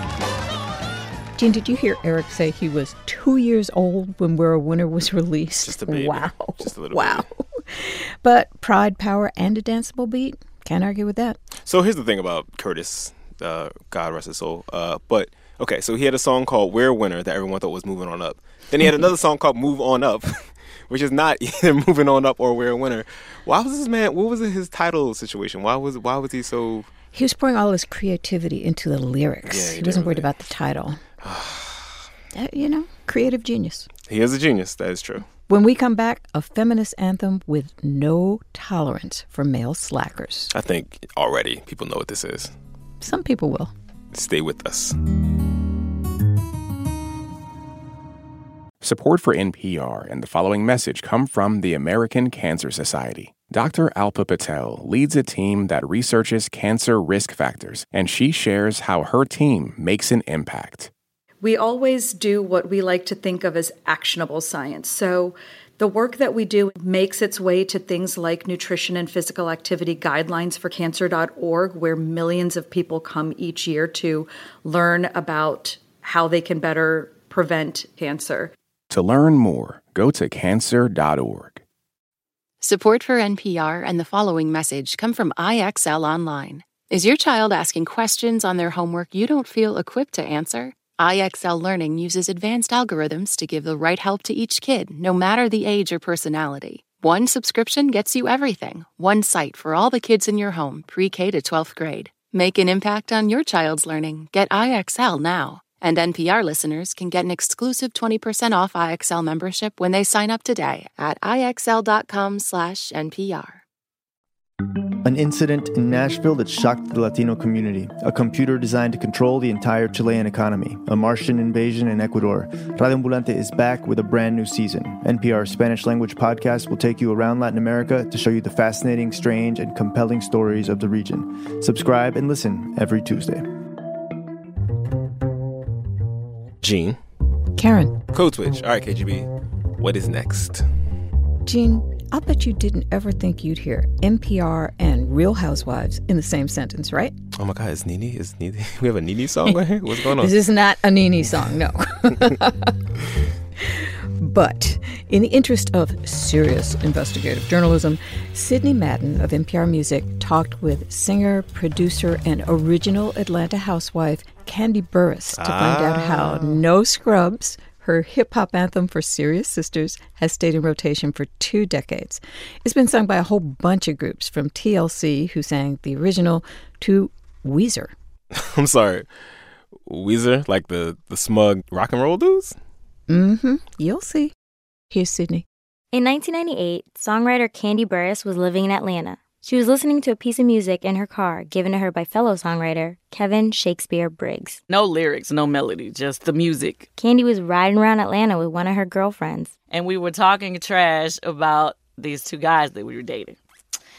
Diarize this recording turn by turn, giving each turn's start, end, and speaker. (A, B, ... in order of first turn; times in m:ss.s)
0:01.4-0:11.4 A
0:05.6-0:07.3 B
0:11.6-0:26.9 B
0:27.1-0:31.0 A
0:29.5-0:30.3 B
0:31.2-0:31.9 B
0:32.3-0:33.9 A
0:33.9-0:35.3 B
0:35.5-0:40.5 A
0:40.5-0:42.5 B
0:43.0-0:43.7 A
0:44.1-0:45.0 B
0:48.8-1:00.9 C
1:01.4-1:18.5 D
1:18.9-1:21.6 C
1:22.6-1:53.6 E
1:55.0-2:13.4 F
2:16.6-2:17.0 B
2:17.6-2:18.0 A
2:18.1-2:20.6 B
2:21.4-2:27.1 A
2:27.3-2:30.3 B
2:29.4-2:32.7 A
2:33.6-2:57.9 A
2:45.3-2:46.6 B
2:58.4-2:59.1 B
2:59.8-3:02.6 B
3:03.1-3:04.3 A
3:04.9-3:05.4 A
3:05.9-3:14.6 G
3:14.7-3:16.9 H
3:17.0-3:19.5 G
3:19.7-3:23.4 H